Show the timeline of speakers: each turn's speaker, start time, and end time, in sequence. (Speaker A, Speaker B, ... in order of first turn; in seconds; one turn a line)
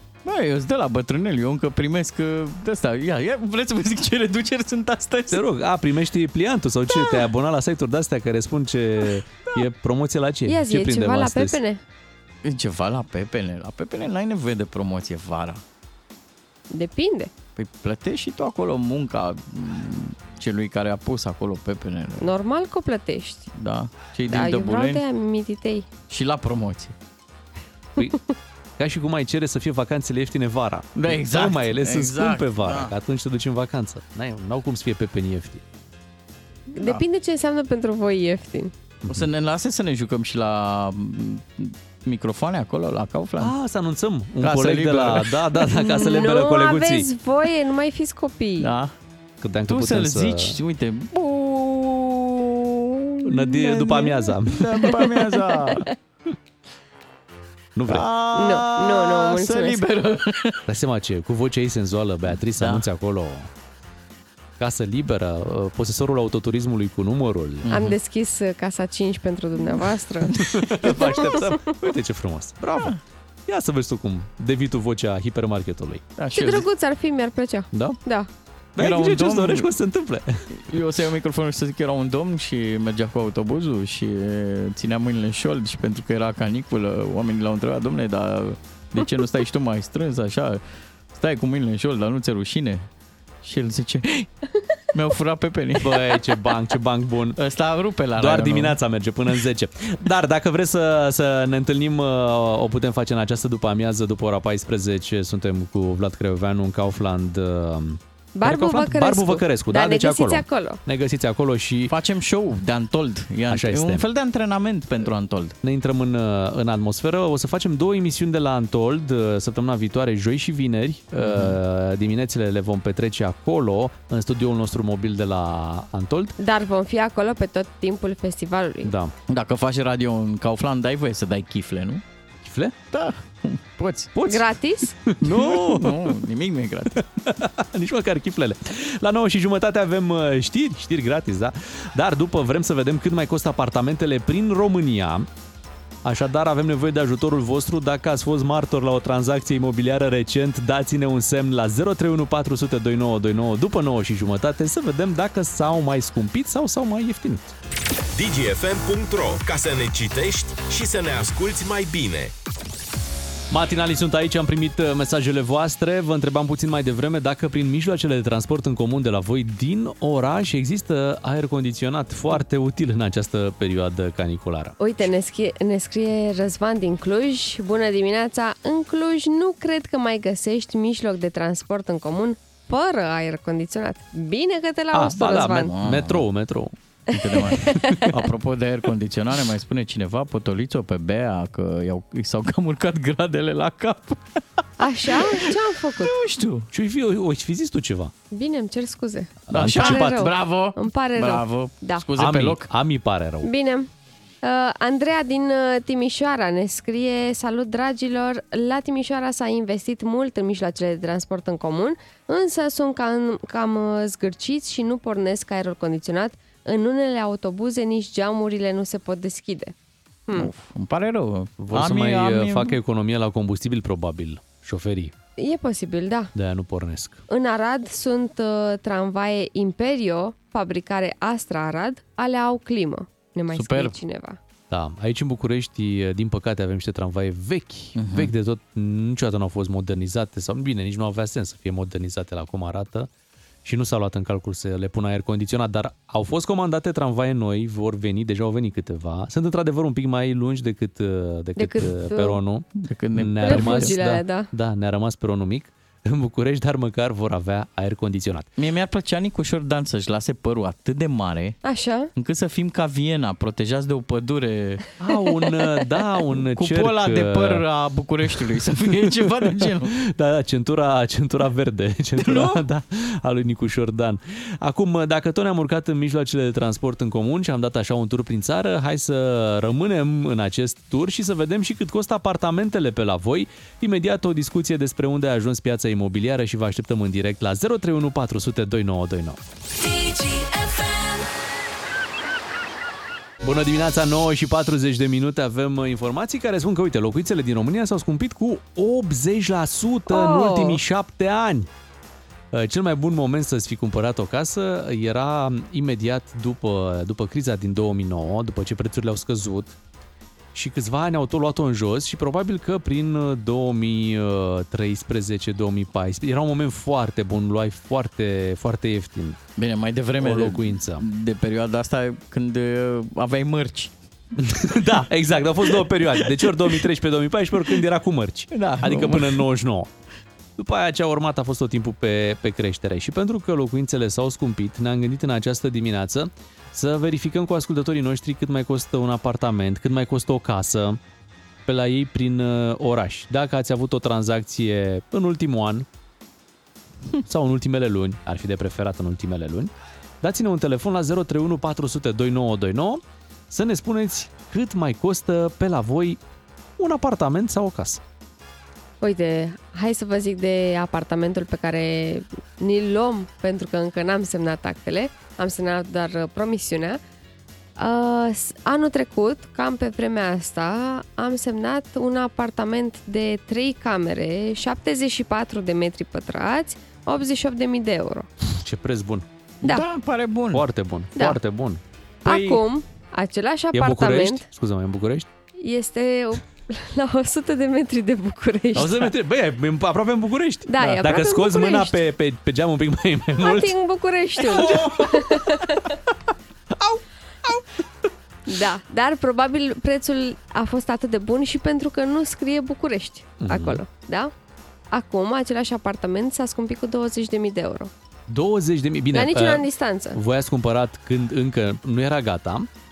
Speaker A: 0.2-5.4
Speaker B: 5.3-11.6
Speaker A: 7.0-7.2
Speaker C: 10.5-11.8
Speaker A: 12.4-15.6
Speaker C: 16.7-17.3
Speaker A: 17.6-22.3
Speaker C: 22.2-23.5
Speaker A: 23.5-25.0
Speaker C: 24.3-25.9
Speaker A: 26.1-26.9
Speaker B: 28.8-35.6
Speaker A: 30.9-32.9
Speaker C: 36.7-38.7
Speaker A: 39.1-43.5
Speaker B: 43.4-47.1
Speaker A: 44.4-45.3
Speaker C: 45.6-48.7
Speaker A: 48.6-48.9
Speaker B: 49.4-50.6
Speaker A: 49.7-53.2
Speaker B: 53.2-54.9
Speaker C: 53.7-54.0
Speaker A: 54.4-55.9
Speaker B: 57.8-58.0
Speaker A: 57.9-60.6
Speaker C: 58.3-59.8
Speaker B: 60.7-63.5
Speaker A: 62.5-62.9
Speaker B: 64.6-67.7
Speaker A: 67.6-68.0
Speaker C: 67.7-71.5
Speaker A: 70.3-71.2
Speaker B: 70.4-76.0
Speaker A: 76.2-76.7
Speaker C: 76.3-78.3
Speaker B: 77.7-78.0
Speaker B: 78.8-80.5
Speaker A: 78.8-79.7
Speaker A: 80.5-90.6
Speaker A: 91.1-92.9
Speaker A: 93.4-94.3
Speaker A: 94.9-96.2
Speaker B: 95.8-97.4
Speaker A: 97.4-98.8
Speaker B: 98.2-111.9
Speaker C: 108.3-110.8
Speaker A: 111.9-115.6
Speaker B: 113.5-114.0
Speaker B: 115.6-126.3
Speaker A: 121.2-121.6
Speaker C: 126.4-128.9
Speaker B: 128.8-129.1
Speaker A: 129.3-132.0
Speaker B: 132.4-132.8
Speaker A: 132.9-134.1
Speaker B: 134.1-134.5
Speaker C: 134.2-134.9
Speaker B: 135.1-136.1
Speaker A: 135.2-137.0
Speaker B: 137.2-145.3
Speaker B: 146.0-157.5
Speaker D: 158.1-162.3
Speaker B: 163.5-175.0
Speaker C: 174.8-185.7
Speaker B: 184.9-186.7
Speaker A: 185.7-186.2
Speaker A: 187.1-194.2
Speaker C: 187.4-188.1
Speaker C: 194.8-196.1
Speaker A: 195.1-196.7
Speaker B: 196.7-198.1
Speaker C: 198.3-202.1
Speaker B: 199.5-200.3
Speaker A: 199.5-202.7
Speaker B: 202.2-203.5
Speaker C: 203.4-203.9
Speaker C: 204.4-219.7
Speaker A: 220.3-222.8
Speaker B: 221.6-225.1
Speaker C: 225.4-226.3
Speaker B: 226.3-227.2
Speaker C: 227.3-234.4
Speaker A: 233.5-233.9
Speaker B: 234.7-243.1
Speaker A: 237.9-238.3
Speaker B: 243.6-258.5
Speaker C: 251.6-252.4
Speaker A: 252.8-254.0
Speaker C: 253.4-254.5
Speaker A: 258.6-261.6
Speaker C: 261.6-262.1
Speaker A: 262.1-264.8
Speaker B: 265.0-267.6
Speaker A: 266.5-269.9
Speaker B: 268.3-289.4
Speaker A: 272.2-272.6
Speaker B: 293.4-301.7
Speaker C: 300.1-300.8
Speaker B: 302.5-309.8
Speaker B: 310.5-319.4
Speaker A: 319.6-323.9
Speaker B: 320.2-321.0
Speaker B: 324.4-329.9
Speaker A: 326.2-326.7
Speaker A: 328.5-329.4
Speaker B: 330.6-341.0
Speaker B: 341.6-345.9
Speaker B: 347.2-356.2
Speaker B: 356.8-358.0
Speaker C: 359.0-367.0
Speaker C: 367.8-378.3
Speaker B: 378.6-379.2
Speaker A: 379.6-380.6
Speaker B: 380.5-381.8
Speaker C: 382.2-384.4
Speaker A: 382.2-382.6
Speaker B: 383.7-385.3
Speaker C: 385.6-389.1
Speaker B: 388.7-393.7
Speaker C: 390.7-392.0
Speaker C: 393.4-395.9
Speaker B: 394.4-395.6
Speaker B: 396.8-397.7
Speaker C: 398.5-404.3
Speaker B: 403.4-403.8
Speaker C: 404.9-407.9
Speaker B: 408.3-412.7
Speaker C: 409.1-410.2